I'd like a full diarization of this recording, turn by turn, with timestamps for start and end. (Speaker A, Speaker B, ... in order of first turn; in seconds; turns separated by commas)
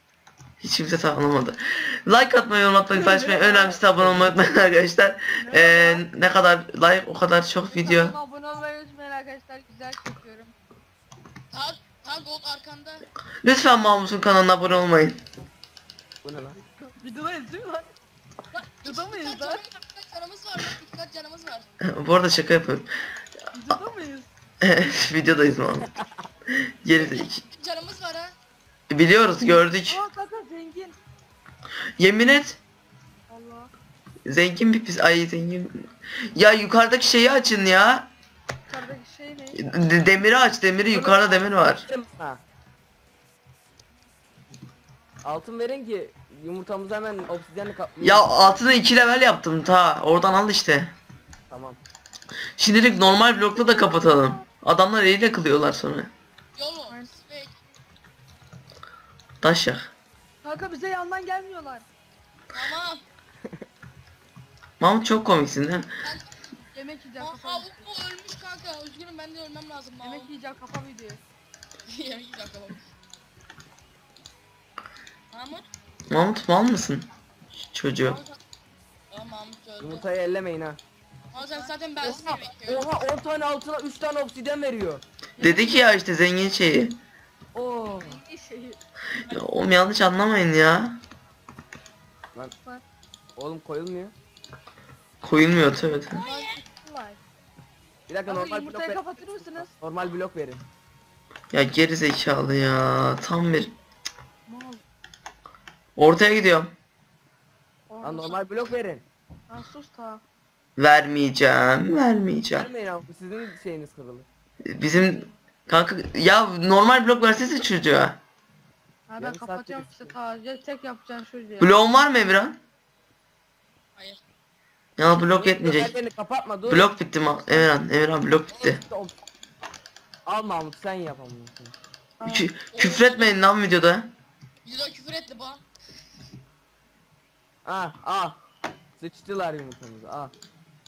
Speaker A: 0.6-8.2, Speaker B: 3.1-3.8, Speaker C: 3.9-4.4, Speaker B: 5.4-6.1, Speaker B: 7.7-10.5, Speaker D: 11.5-13.1, Speaker A: 13.4-15.2, Speaker C: 16.2-16.6, Speaker B: 17.0-17.9, Speaker D: 18.5-21.7, Speaker B: 18.8-19.6, Speaker A: 21.8-22.9, Speaker B: 23.5-24.3, Speaker A: 24.6-25.9, Speaker A: 26.5-27.4, Speaker D: 27.0-28.4, Speaker A: 28.9-30.0, Speaker B: 29.9-31.0, Speaker A: 32.0-32.6, Speaker B: 33.3-33.7, Speaker A: 34.3-38.1, Speaker B: 38.7-39.6, Speaker A: 39.6-41.9, Speaker B: 40.9-41.5, Speaker C: 41.8-42.4, Speaker C: 45.2-48.4, Speaker A: 48.0-50.9, Speaker C: 51.5-51.8, Speaker A: 52.6-56.1, Speaker B: 53.5-54.4, Speaker D: 56.6-57.6, Speaker A: 59.4-59.9, Speaker B: 60.4-61.9, Speaker D: 62.5-63.0, Speaker A: 64.8-65.9, Speaker D: 66.0-66.3, Speaker B: 66.7-67.7, Speaker D: 67.2-70.3, Speaker B: 70.0-71.2, Speaker D: 71.9-72.8, Speaker D: 75.3-75.7, Speaker A: 76.1-77.0, Speaker A: 77.7-78.2, Speaker B: 78.0-78.4, Speaker D: 79.1-80.1, Speaker C: 79.8-80.8, Speaker D: 81.3-82.9, Speaker B: 81.3-81.7, Speaker C: 82.0-85.0, Speaker B: 85.4-85.7, Speaker A: 85.4-87.0, Speaker C: 87.5-88.2, Speaker B: 88.0-88.8, Speaker A: 89.3-91.0, Speaker C: 93.4-94.1, Speaker A: 95.2-96.2, Speaker D: 96.1-96.5, Speaker B: 96.2-97.2, Speaker C: 98.1-100.6, Speaker B: 98.3-99.7, Speaker A: 101.5-103.7, Speaker B: 104.5-104.8, Speaker A: 106.0-106.7, Speaker B: 107.9-108.4, Speaker C: 108.0-109.0, Speaker B: 109.5-110.2, Speaker A: 110.8-112.7, Speaker C: 112.5-114.3, Speaker A: 114.6-118.2, Speaker B: 119.1-121.8, Speaker C: 119.2-120.1, Speaker A: 121.6-122.6, Speaker D: 124.0-124.2, Speaker A: 125.0-125.9, Speaker C: 125.2-126.9, Speaker A: 126.7-128.8, Speaker C: 128.6-129.1, Speaker C: 130.3-131.8, Speaker B: 132.2-132.5, Speaker A: 132.2-134.1, Speaker D: 132.7-133.4, Speaker D: 134.7-135.6, Speaker C: 137.7-138.4, Speaker C: 139.0-140.3